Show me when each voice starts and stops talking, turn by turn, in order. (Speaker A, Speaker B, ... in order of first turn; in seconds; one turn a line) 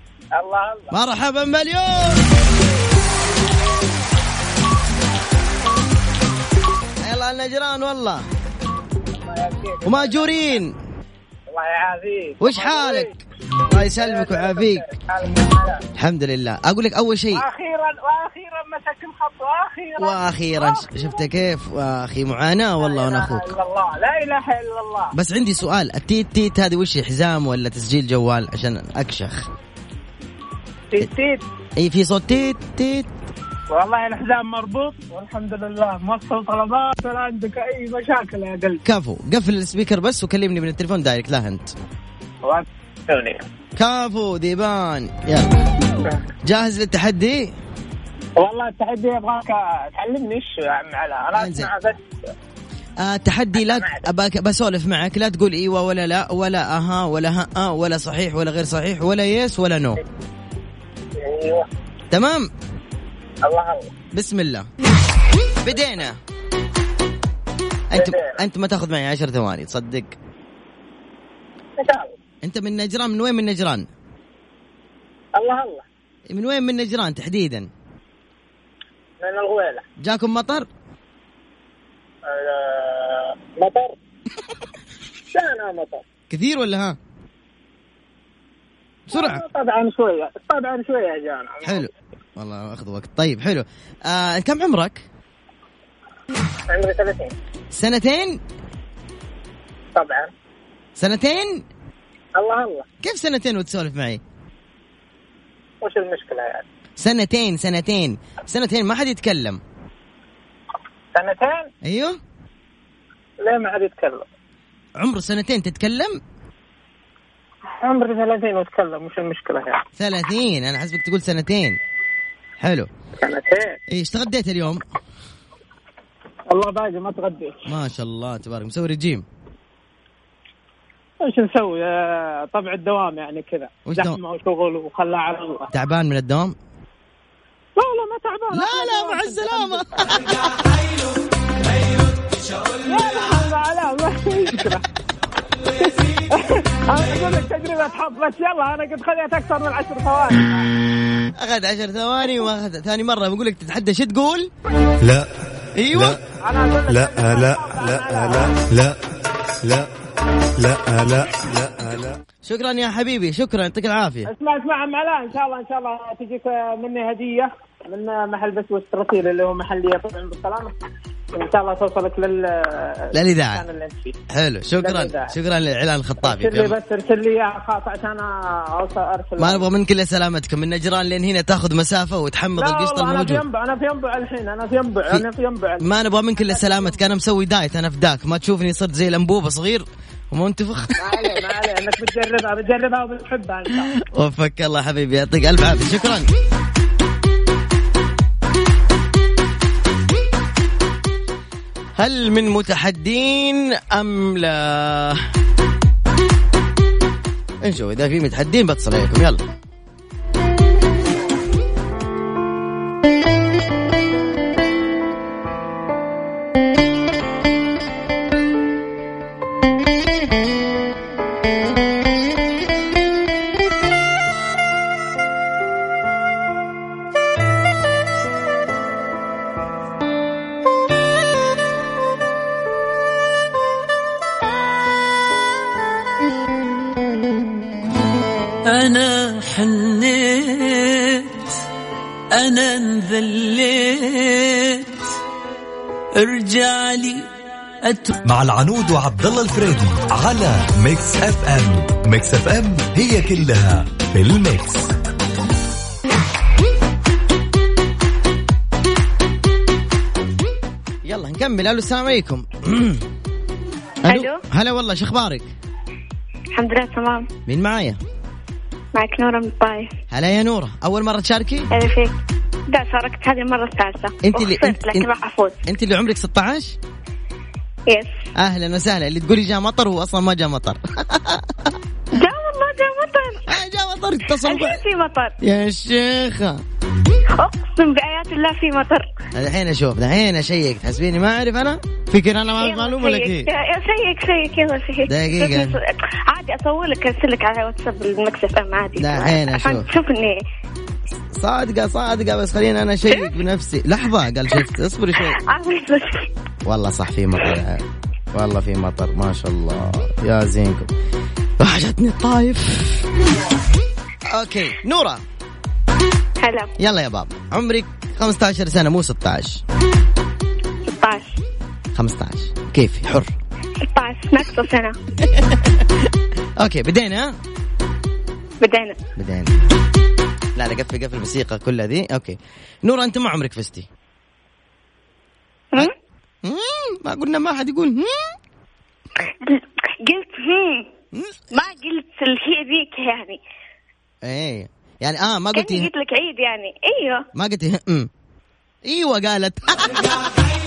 Speaker A: 0.3-0.9
Speaker B: 0.9-2.2
Speaker B: 7.0-8.2
Speaker A: 9.2-10.6
Speaker B: 9.8-10.7
Speaker A: 11.5-13.1
Speaker B: 12.4-13.1
Speaker B: 13.7-14.8
Speaker A: 14.0-15.8
Speaker B: 15.9-17.4
Speaker A: 17.3-21.0
Speaker B: 20.0-23.5
Speaker A: 22.8-25.1
Speaker B: 25.1-29.4
Speaker A: 30.9-31.4
Speaker B: 31.8-33.1
Speaker A: 33.7-38.8
Speaker B: 38.8-41.7
Speaker A: 42.4-43.4
Speaker B: 43.8-45.5
Speaker B: 46.4-47.5
Speaker A: 48.4-52.0
Speaker B: 51.3-51.7
Speaker B: 53.0-60.0
Speaker A: 53.6-54.0
Speaker A: 61.2-61.6
Speaker B: 62.1-62.5
Speaker A: 63.4-63.9
Speaker B: 64.1-64.7
Speaker B: 65.6-66.2
Speaker B: 67.9-70.2
Speaker A: 68.0-68.4
Speaker A: 71.8-72.1
Speaker B: 72.4-73.9
Speaker A: 75.3-75.8
Speaker B: 76.3-77.7
Speaker A: 79.2-79.8
Speaker B: 80.0-80.7
Speaker A: 82.3-83.9
Speaker A: 85.3-86.0
Speaker B: 86.3-87.0
Speaker B: 89.1-89.4
Speaker A: 89.1-91.9
Speaker B: 91.6-95.0
Speaker A: 96.7-97.3
Speaker B: 97.7-98.4
Speaker A: 100.0-100.3
Speaker B: 101.0-101.6
Speaker A: 102.4-102.8
Speaker B: 103.0-104.2
Speaker A: 105.8-106.6
Speaker B: 107.0-109.6
Speaker A: 111.1-111.7
Speaker B: 111.8-112.2
Speaker A: 113.4-114.2
Speaker B: 115.0-116.2
Speaker A: 117.8-119.8
Speaker B: 120.0-121.8
Speaker B: 122.6-122.9
Speaker A: 123.2-123.8
Speaker B: 123.9-124.8
Speaker A: 126.5-127.7
Speaker B: 127.7-129.2
Speaker A: 131.2-135.7
Speaker B: 133.8-134.2
Speaker B: 135.7-136.5
Speaker A: 137.8-139.8
Speaker B: 138.5-140.4
Speaker A: 142.8-144.8
Speaker A: 146.3-150.6
Speaker B: 151.3-154.5
Speaker C: 155.0-155.3
Speaker B: 155.8-156.2
Speaker C: 155.9-156.2
Speaker A: 156.4-158.5
Speaker C: 156.9-159.0
Speaker C: 159.6-159.9
Speaker C: 160.6-162.2
Speaker B: 162.4-164.3
Speaker A: 164.3-170.7
Speaker A: 171.3-174.1
Speaker B: 173.1-173.6
Speaker B: 174.3-176.8
Speaker A: 174.8-175.3
Speaker A: 176.2-179.7
Speaker B: 179.4-183.4
Speaker A: 182.6-185.8
Speaker B: 185.8-191.4
Speaker A: 186.3-187.0
Speaker A: 191.0-193.9
Speaker B: 194.0-196.3
Speaker B: 202.0-205.2
Speaker B: 207.6-209.4
Speaker D: 238.7-241.6
Speaker D: 242.3-245.1
Speaker D: 246.2-247.3
Speaker D: 247.8-248.1
Speaker E: 248.2-254.9
Speaker B: 261.0-263.0
Speaker B: 264.0-265.5
Speaker F: 266.6-267.2
Speaker B: 267.5-268.0
Speaker F: 269.0-269.8
Speaker B: 270.1-271.7
Speaker F: 271.8-272.1
Speaker F: 272.7-274.0
Speaker B: 274.2-275.1
Speaker F: 274.6-275.5
Speaker B: 275.7-276.8
Speaker B: 278.4-281.7
Speaker F: 282.4-282.9
Speaker B: 283.5-284.8
Speaker F: 284.9-285.2
Speaker B: 285.4-286.6
Speaker F: 287.5-288.9
Speaker B: 289.3-293.5
Speaker F: 293.2-295.6
Speaker B: 295.1-295.8
Speaker F: 296.4-298.9
Speaker B: 298.9-299.9
Speaker F: 299.7-300.2
Speaker B: 301.3-305.4
Speaker F: 305.6-305.9
Speaker B: 306.6-310.9
Speaker B: 311.6-313.1
Speaker B: 314.2-315.2
Speaker B: 316.8-319.6
Speaker B: 321.9-323.3
Speaker F: 323.9-324.9
Speaker B: 325.2-327.3
Speaker F: 328.6-328.9
Speaker B: 329.1-329.5
Speaker B: 330.6-333.9
Speaker B: 336.4-338.3
Speaker F: 340.1-340.6
Speaker B: 341.1-341.4
Speaker F: 341.6-343.4
Speaker B: 344.2-345.9
Speaker F: 345.6-347.2
Speaker B: 347.3-348.1
Speaker B: 348.8-350.1